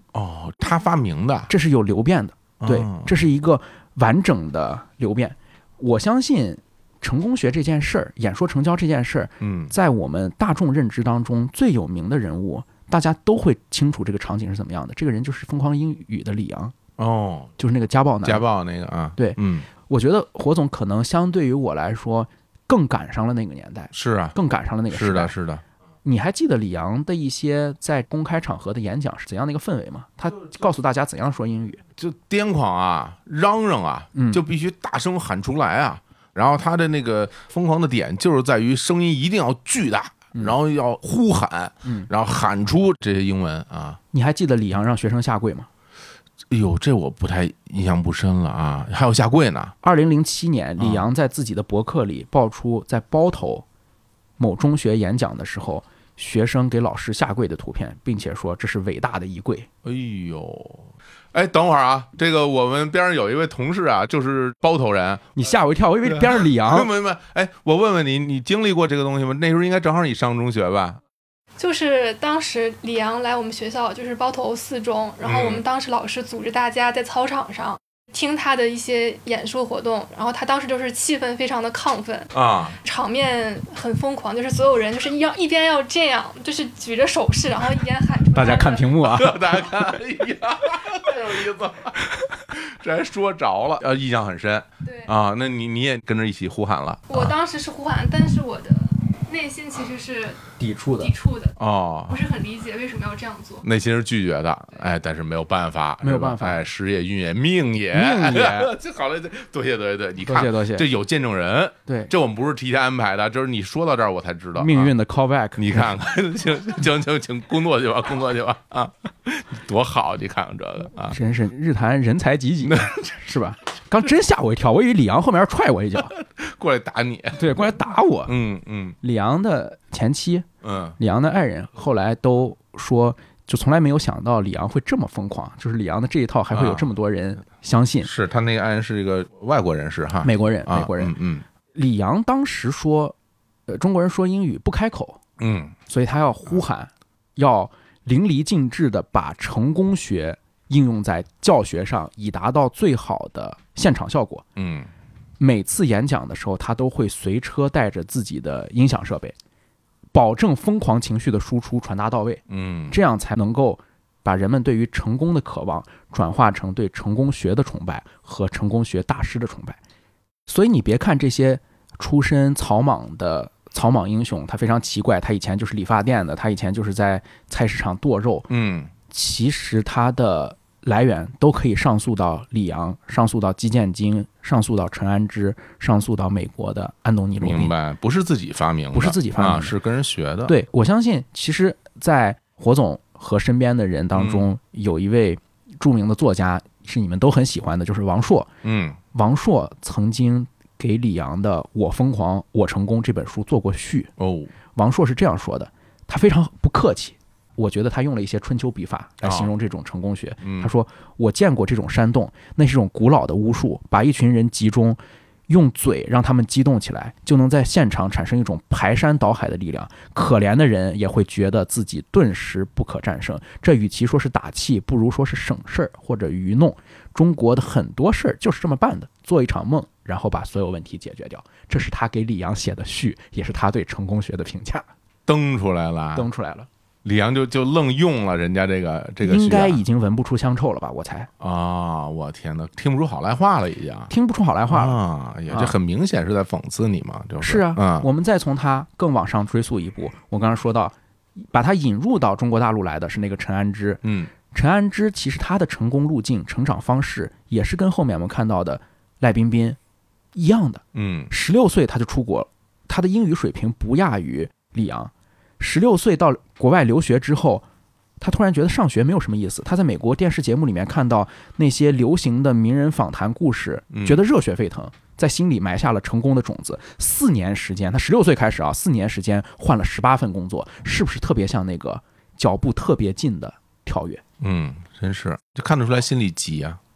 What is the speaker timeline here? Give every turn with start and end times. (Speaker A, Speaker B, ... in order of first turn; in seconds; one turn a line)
Speaker A: 0.1-1.5
Speaker B: 1.5-16.7
Speaker A: 2.6-3.1
Speaker A: 9.4-9.7
Speaker A: 17.0-17.5
Speaker B: 17.6-18.4
Speaker A: 18.2-19.7
Speaker B: 19.2-25.3
Speaker A: 23.9-24.4
Speaker A: 24.9-25.6
Speaker B: 26.0-31.8
Speaker A: 32.0-44.0
Speaker B: 34.1-34.4
Speaker B: 44.1-45.7
Speaker A: 46.5-49.7
Speaker B: 49.8-53.6
Speaker A: 50.8-51.1
Speaker B: 54.4-59.7
Speaker A: 59.8-65.3
Speaker B: 65.3-66.9
Speaker A: 66.0-71.0
Speaker C: 71.6-89.0
Speaker A: 75.2-75.6
Speaker A: 82.3-82.8
Speaker B: 88.3-89.6
Speaker A: 89.0-97.4
Speaker C: 94.8-95.1
Speaker C: 97.1-101.6
Speaker B: 100.6-101.1
Speaker A: 101.6-102.2
Speaker C: 102.1-103.7
Speaker A: 103.6-114.9
Speaker B: 106.0-106.6
Speaker B: 107.9-108.7
Speaker B: 110.2-110.9
Speaker B: 111.9-112.1
Speaker B: 114.6-115.9
Speaker A: 115.5-121.2
Speaker B: 121.1-126.1
Speaker A: 122.6-123.2
Speaker A: 126.1-127.5
Speaker B: 127.4-128.3
Speaker A: 128.3-129.0
Speaker B: 129.0-130.4
Speaker A: 130.6-131.0
Speaker B: 131.0-138.1
Speaker A: 136.5-136.9
Speaker A: 138.0-141.4
Speaker B: 140.2-141.2
Speaker B: 141.7-143.1
Speaker B: 143.7-145.2
Speaker A: 145.4-145.7
Speaker B: 145.9-154.4
Speaker A: 154.6-154.9
Speaker B: 155.4-159.3
Speaker B: 160.1-169.8
Speaker A: 162.5-163.0
Speaker B: 170.5-178.5
Speaker A: 178.5-178.9
Speaker B: 179.1-187.7
Speaker A: 187.4-190.6
Speaker B: 188.9-189.7
Speaker B: 190.4-198.5
Speaker A: 194.1-194.5
Speaker A: 198.6-199.0
Speaker B: 199.1-204.1
Speaker A: 204.2-204.5
Speaker B: 204.7-234.9
Speaker A: 209.2-209.5
Speaker A: 210.4-210.7
Speaker A: 235.3-236.3
Speaker B: 236.1-236.7
Speaker A: 237.1-239.8
Speaker B: 239.2-241.3
Speaker A: 241.4-244.1
Speaker B: 244.1-245.0
Speaker A: 244.7-248.1
Speaker B: 245.5-245.7
Speaker B: 247.4-259.8
Speaker A: 254.0-254.3
Speaker B: 260.3-267.6
Speaker A: 260.9-261.3
Speaker B: 268.2-284.2
Speaker A: 273.9-274.2
Speaker A: 284.4-286.8